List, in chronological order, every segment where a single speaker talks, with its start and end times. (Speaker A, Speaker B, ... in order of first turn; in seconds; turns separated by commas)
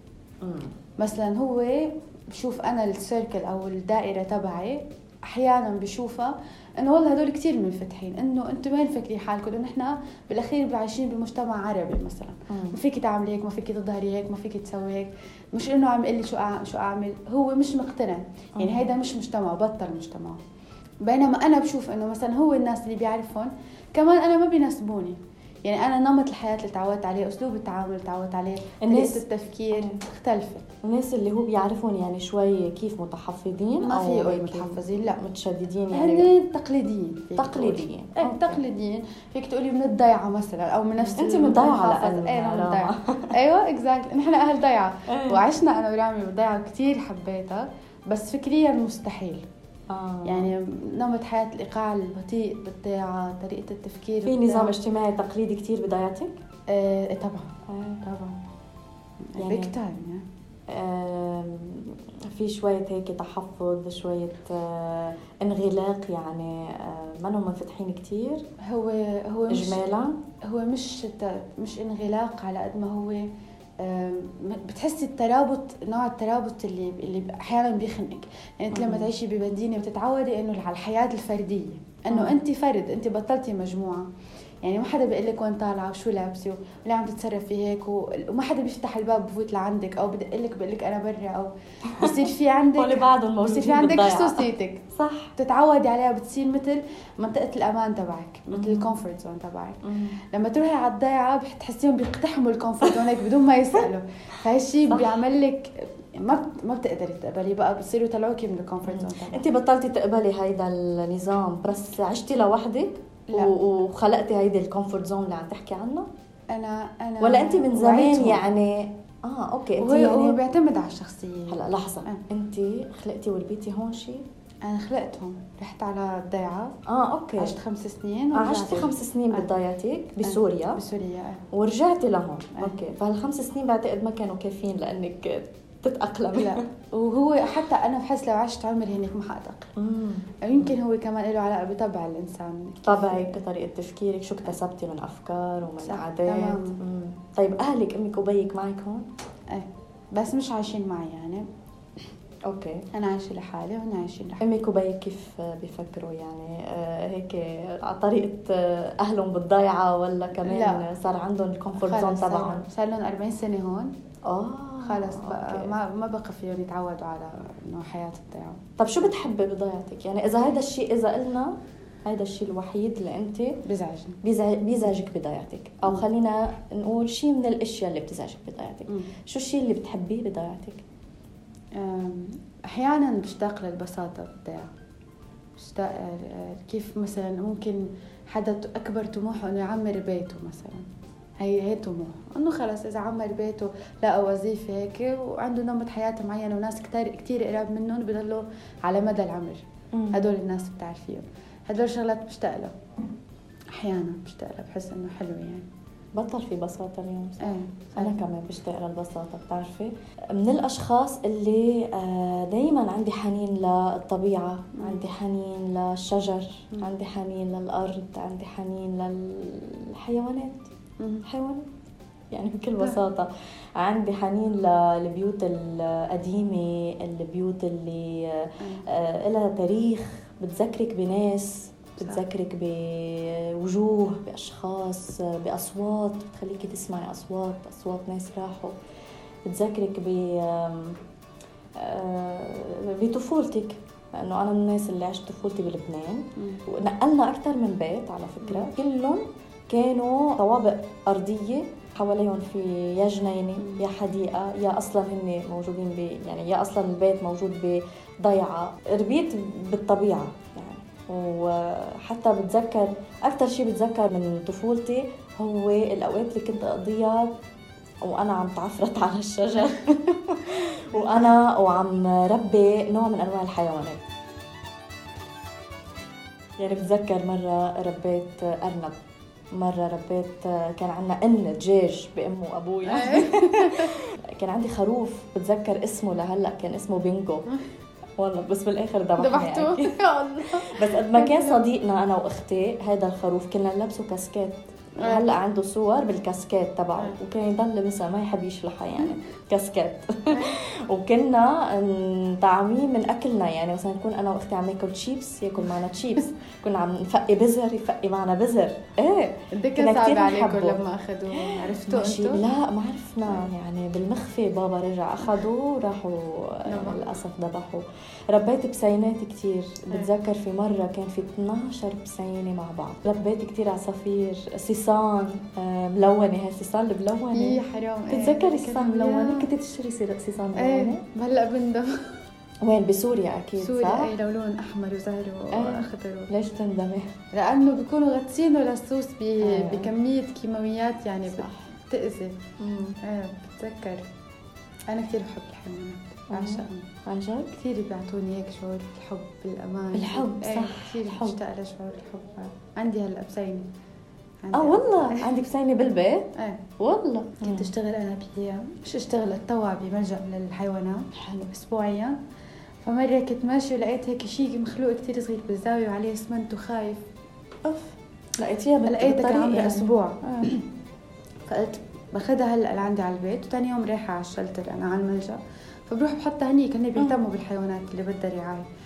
Speaker A: 0.4-0.7, Speaker B: 1.0-20.4, Speaker A: 12.5-12.8, Speaker A: 18.6-18.9, Speaker B: 21.0-30.7, Speaker A: 28.8-30.0, Speaker A: 30.8-36.3, Speaker B: 33.8-35.2, Speaker B: 35.9-49.5, Speaker A: 37.4-38.6, Speaker A: 41.0-43.3, Speaker A: 45.1-45.5, Speaker A: 49.9-50.5, Speaker B: 50.2-54.8, Speaker A: 54.2-56.4, Speaker B: 56.7-58.4, Speaker A: 57.7-58.0, Speaker B: 59.2-60.2, Speaker A: 59.4-59.7, Speaker A: 60.7-68.4, Speaker B: 68.6-69.8, Speaker A: 69.5-70.2, Speaker B: 70.4-73.3, Speaker B: 73.8-84.1, Speaker A: 78.7-79.1, Speaker A: 82.1-82.4, Speaker B: 84.6-94.9, Speaker A: 92.8-95.3, Speaker B: 95.4-99.8, Speaker A: 98.5-98.9, Speaker A: 99.8-100.2, Speaker B: 100.3-109.5, Speaker A: 104.8-105.2, Speaker A: 108.9-116.1, Speaker B: 113.3-113.5, Speaker B: 116.5-118.5, Speaker A: 117.2-120.4, Speaker B: 119.8-122.2, Speaker A: 121.5-124.2, Speaker B: 124.7-126.8, Speaker A: 126.9-127.6, Speaker B: 127.4-129.5, Speaker A: 128.3-130.8, Speaker B: 130.2-131.4, Speaker A: 131.5-136.6, Speaker B: 136.3-139.7, Speaker A: 139.8-140.7, Speaker B: 140.4-143.4, Speaker A: 142.8-149.1, Speaker B: 145.8-146.8, Speaker B: 149.5-151.5, Speaker A: 152.5-152.8, Speaker B: 152.9-154.5, Speaker A: 154.4-162.7, Speaker B: 160.4-160.9, Speaker B: 161.8-163.9, Speaker A: 164.3-165.7, Speaker B: 164.8-169.1, Speaker A: 168.8-171.6, Speaker A: 172.1-173.6, Speaker B: 173.6-174.2, Speaker A: 174.2-180.8, Speaker B: 181.8-184.7, Speaker B: 185.6-190.9, Speaker B: 191.4-199.6, Speaker A: 199.9-200.2, Speaker B: 200.1-202.8, Speaker B: 203.7-205.7, Speaker A: 206.2-220.7, Speaker B: 207.4-208.2, Speaker B: 214.8-215.1, Speaker B: 221.0-221.3, Speaker A: 221.3-221.7, Speaker A: 222.3-238.8, Speaker B: 228.6-228.9, Speaker B: 232.0-232.2, Speaker A: 239.5-241.0, Speaker A: 241.8-267.4, Speaker B: 246.4-246.6, Speaker B: 248.4-248.7, Speaker B: 253.6-253.8, Speaker A: 268.0-274.0, Speaker B: 270.9-271.3, Speaker A: 276.6-279.0, Speaker A: 279.5-287.5, Speaker B: 282.9-283.9, Speaker A: 288.2-289.9, Speaker B: 289.2-291.6, Speaker A: 290.5-310.8, Speaker B: 295.0-295.3, Speaker B: 300.3-300.6, Speaker B: 309.5-312.4, Speaker A: 311.4-331.0, Speaker B: 316.7-317.2, Speaker B: 327.3-329.5, Speaker B: 330.6-332.0, Speaker A: 332.6-334.1, Speaker B: 333.6-336.3, Speaker A: 335.5-337.1, Speaker B: 337.3-342.4, Speaker A: 339.4-339.9, Speaker A: 341.3-341.7, Speaker A: 342.6-343.0, Speaker B: 343.0-344.0, Speaker B: 344.9-346.9, Speaker A: 346.3-347.5, Speaker B: 347.5-353.7, Speaker A: 349.9-351.4, Speaker B: 354.4-355.3, Speaker A: 354.5-357.7, Speaker B: 356.4-356.6, Speaker B: 357.4-362.2, Speaker B: 362.8-367.1, Speaker A: 367.7-370.6, Speaker B: 368.9-370.6, Speaker B: 371.5-378.6